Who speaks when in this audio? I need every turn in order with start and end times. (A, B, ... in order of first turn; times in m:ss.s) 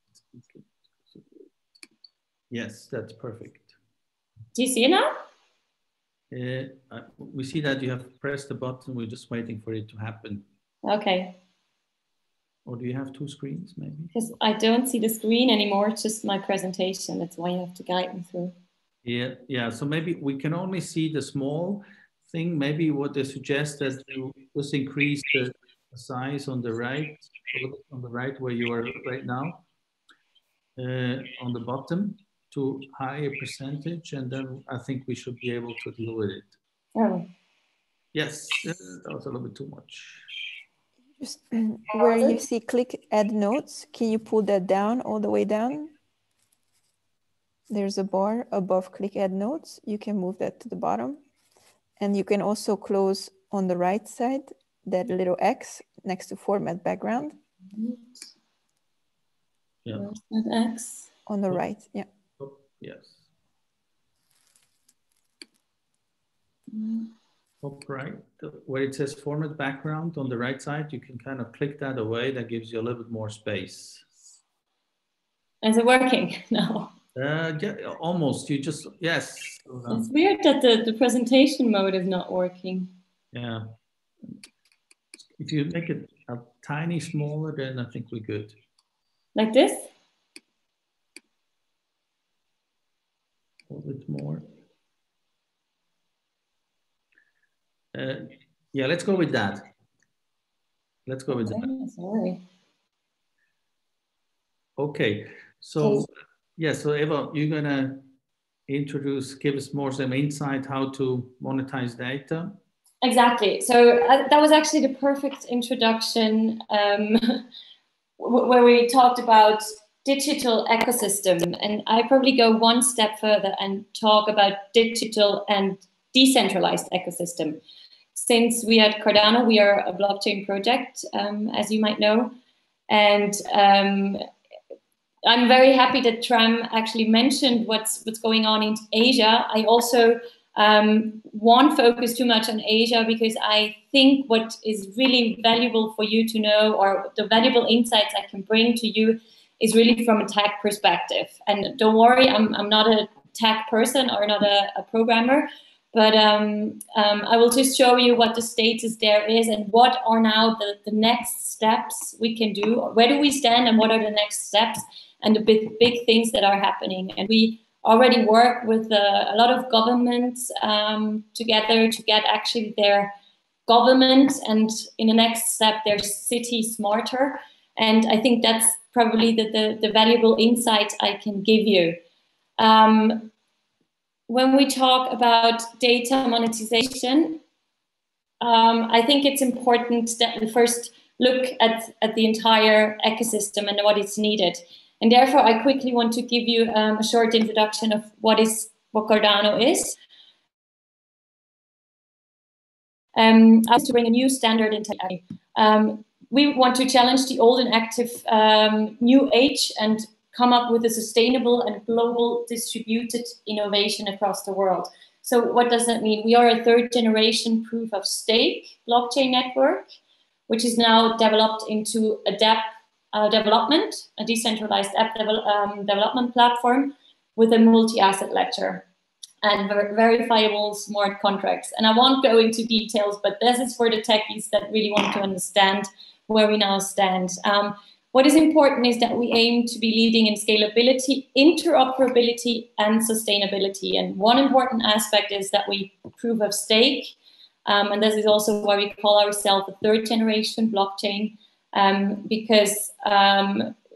0:00.3-0:01.3 A
0:02.5-0:03.7 A
0:04.6-0:05.2 B
0:06.3-0:10.5 A
0:10.8-0:11.4 B
0:12.6-0:14.1 A
0:14.1-0:18.6 B
0:19.0-0:29.6 A
0:30.8-0:36.6 A
0:37.0-0:37.3 B
0:38.1-0:40.3 A
0:41.2-0:45.9 C
0:42.0-0:42.4 B
0:47.7-0:51.2 C
0:52.0-0:57.4 C
0:57.7-0:58.0 B
1:00.0-1:01.1 B
1:01.3-1:02.1 C
1:02.4-1:03.2 A
1:06.7-1:07.1 B
1:07.6-1:14.1 A
1:15.6-1:16.9 B
1:17.2-1:20.1 A
1:19.9-1:22.9 B
1:23.3-1:23.7 A
1:25.4-1:28.6 A
1:29.4-1:29.9 B
1:33.7-1:34.5 A
1:37.9-1:39.7 A
1:41.1-1:41.7 A
1:41.4-1:42.4 B
1:44.8-1:48.1 A
1:45.8-1:46.0 B
1:48.7-1:52.6 A
1:53.0-1:57.5 B
1:58.2-2:07.6 B
2:08.2-2:12.4 B
2:12.9-2:14.2 B
2:15.2-2:53.2 B
2:53.7-3:02.0 B
3:02.6-3:03.3 B
3:04.3-3:07.4 B
3:08.4-3:20.0 B
3:23.2-3:39.9 B
3:40.5-3:48.9 B
3:49.4-4:13.8 B